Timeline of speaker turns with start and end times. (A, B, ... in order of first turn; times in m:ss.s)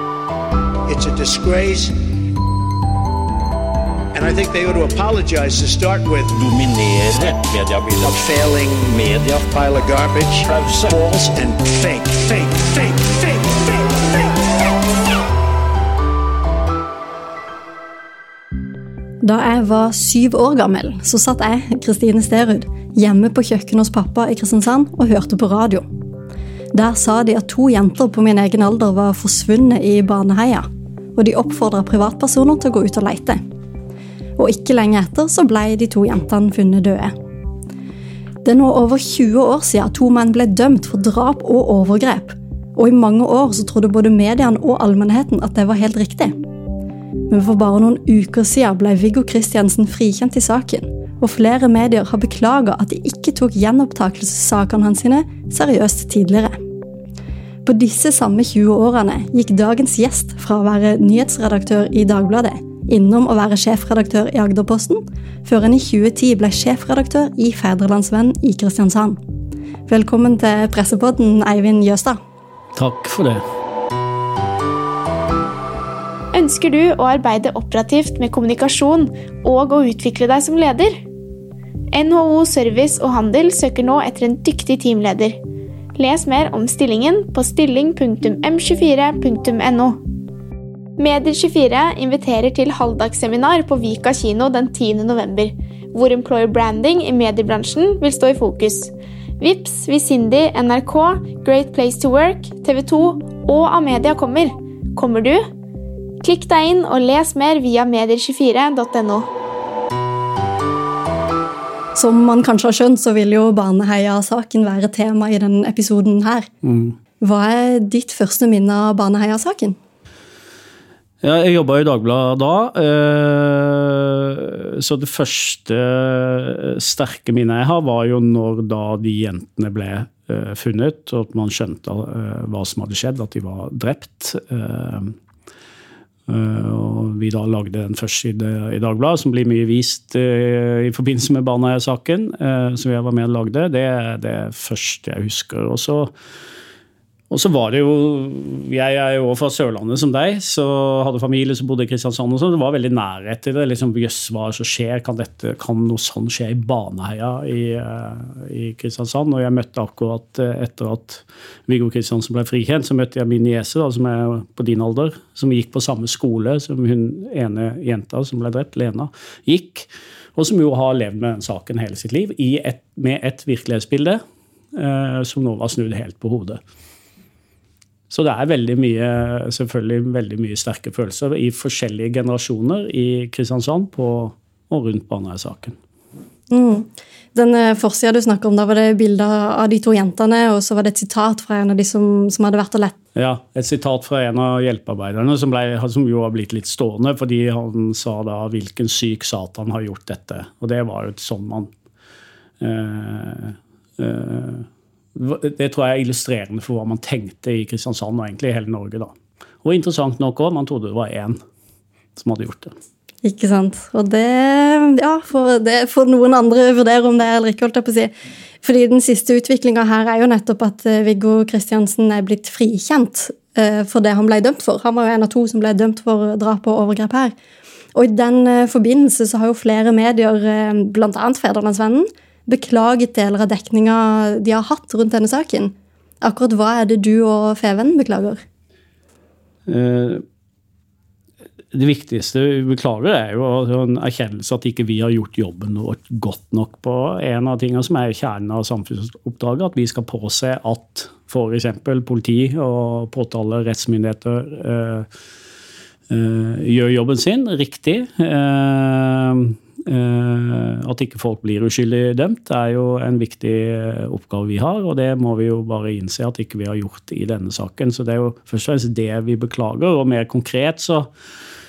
0:00.9-0:02.0 A
0:04.1-0:14.3 A
0:19.2-0:25.9 B
0:26.7-0:33.4 B
0:34.4-0:37.2 B
0:38.4-0:46.4 B
0:47.3-0:56.6 B
0:57.6-1:09.2 B
1:09.9-1:12.2 B
1:12.8-1:13.4 C
1:16.3-1:21.0 D
1:21.9-1:25.4 D
1:26.0-1:30.0 D
1:31.0-1:45.5 D
1:46.2-1:49.3 D
1:52.0-1:56.5 B
1:56.6-1:57.0 C
1:57.2-1:59.8 B
2:01.2-2:15.2 C
2:16.3-2:26.1 C
2:27.3-2:54.2 C
2:54.8-2:56.6 C
2:58.1-3:05.8 C
3:06.5-3:13.0 B
3:13.2-3:21.7 C
3:22.6-3:29.1 C
3:29.6-3:31.4 C
3:32.2-3:32.7 C
3:33.2-3:47.4 B
3:48.0-3:58.4 B
3:59.7-4:00.2 C
4:01.7-4:15.1 C
4:16.1-4:31.1 C